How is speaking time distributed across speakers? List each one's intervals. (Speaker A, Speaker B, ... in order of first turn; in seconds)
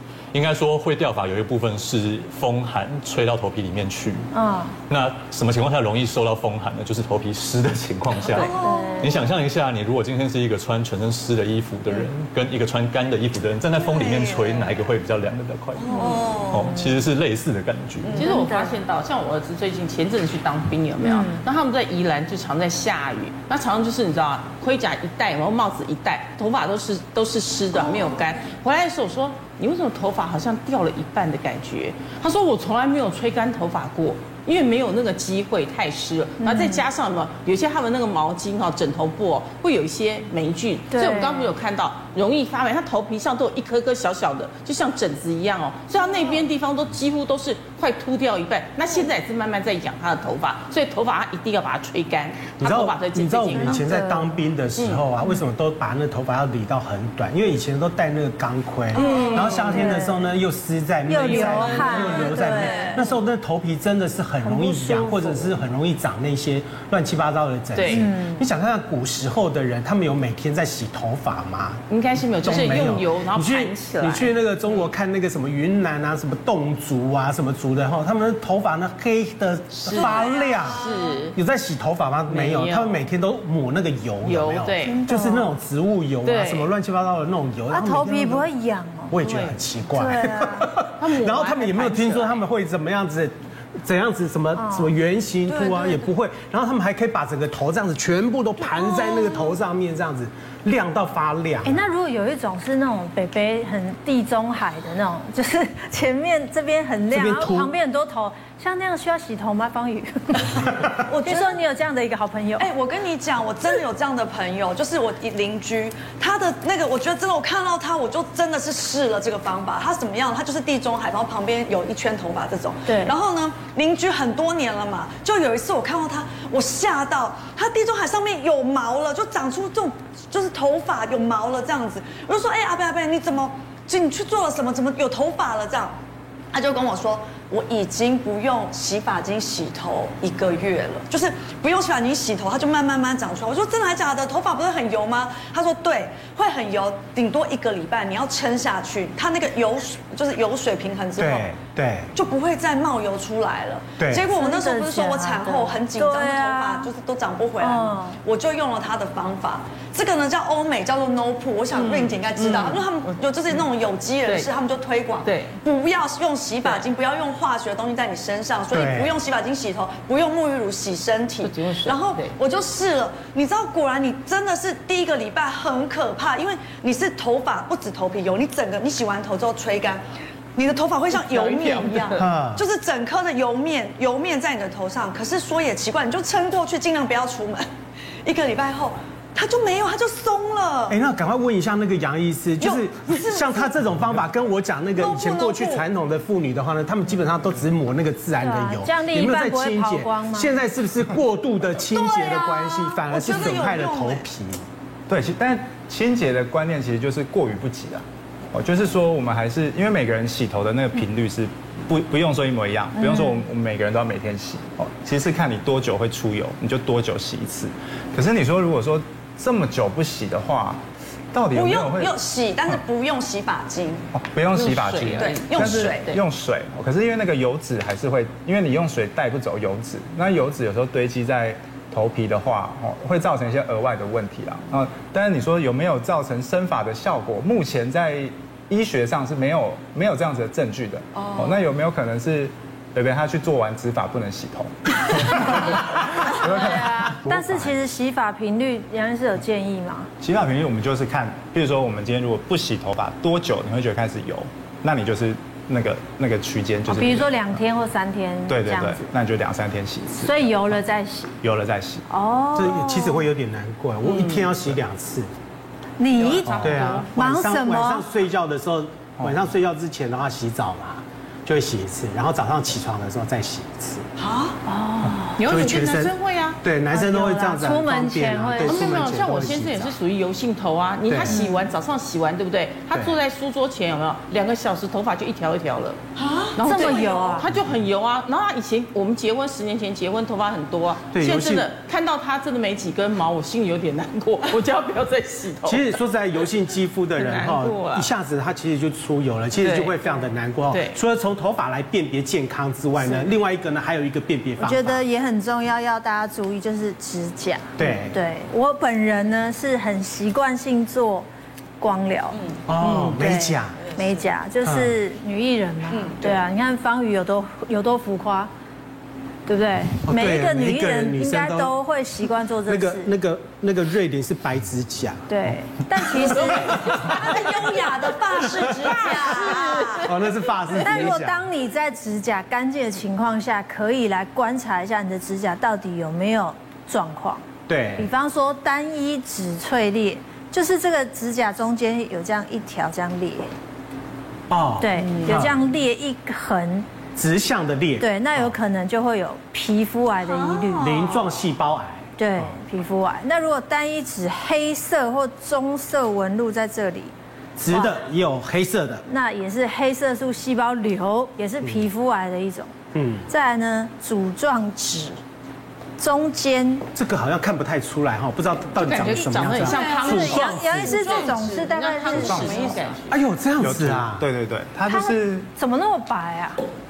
Speaker A: 0.3-4.3, 4.9-18.2
Speaker B: 4.3-4.7, 8.5-9.3, 18.2-18.8, 21.0-21.4, 36.4-36.8, 40.9-41.5, 53.5-54.3, 59.0-60.2, 61.1-63.0, 64.4-65.6, 67.9-68.4, 84.8-85.5, 87.7-89.1, 89.9-90.7, 94.5-94.9, 101.6-112.7, 122.8-123.1, 154.3-156.9, 157.6-158.2, 198.4-200.6, 213.0-213.4, 246.2-250.1, 256.9-259.1, 260.1-261.3, 262.1-263.2, 266.0-268.1, 274.6-275.5, 276.9-278.9, 281.2-281.6, 286.6-287.5, 304.6-311.3, 311.8-312.4, 313.1-318.5, 319.5-323.1, 325.3-326.9, 330.8-337.4, 338.0-343.5, 344.8-346.9, 348.0-350.9, 352.2-357.1, 357.7-358.0, 359.1-362.7, 363.3-365.2, 366.0-366.8, 369.8-372.8, 374.9-376.6
Speaker C: 8.3-9.2, 13.8-14.8, 15.8-16.8, 18.0-18.3, 62.5-63.0, 80.0-80.8, 95.5-96.0, 110.9-111.5, 112.6-135.9, 136.5-151.5, 152.1-180.0, 180.6-187.7, 188.2-191.0, 192.6-193.7, 195.0-195.8, 201.9-204.2, 221.5-224.1, 225.2-226.1, 241.2-241.5, 274.2-274.6, 286.2-287.2, 315.9-316.4, 326.7-330.1, 350.3-351.1, 369.7-370.1
Speaker D: 15.9-16.2, 18.1-53.9, 58.9-60.0, 61.1-63.0, 67.7-68.0, 71.9-74.3, 79.8-81.3, 82.3-83.0, 84.2-85.0, 86.2-86.7, 89.1-89.6, 90.9-92.4, 161.7-163.1, 164.2-164.5, 165.2-165.6, 171.4-172.3, 181.1-182.3, 224.5-226.2, 264.0-264.5, 266.1-267.1, 275.4-276.6, 278.6-286.0, 286.5-296.0, 297.1-298.1, 299.6-300.0, 300.7-301.0, 312.8-313.1, 326.6-330.8, 368.8-373.2
Speaker E: 52.6-71.8, 72.4-88.5, 89.1-101.8, 107.1-107.7, 151.2-152.1, 154.0-154.2, 168.7-169.2, 182.2-182.6, 190.9-204.6, 262.5-265.3, 266.6-274.0, 275.4-280.0, 281.1-281.4, 291.1-291.7, 295.6-305.0, 307.8-308.2, 312.7-313.8, 314.6-314.9, 320.1-321.7, 322.6-325.3, 326.2-326.5, 330.0-331.5, 337.7-338.1, 344.5-345.6, 347.1-348.1, 350.8-352.1, 357.6-359.0, 362.9-363.2, 366.9-371.3, 373.1-374.2
Speaker F: 205.1-222.2, 224.1-247.7, 250.2-257.6, 258.5-260.6, 261.4-262.1, 266.4-266.8, 372.1-372.9, 373.6-375.5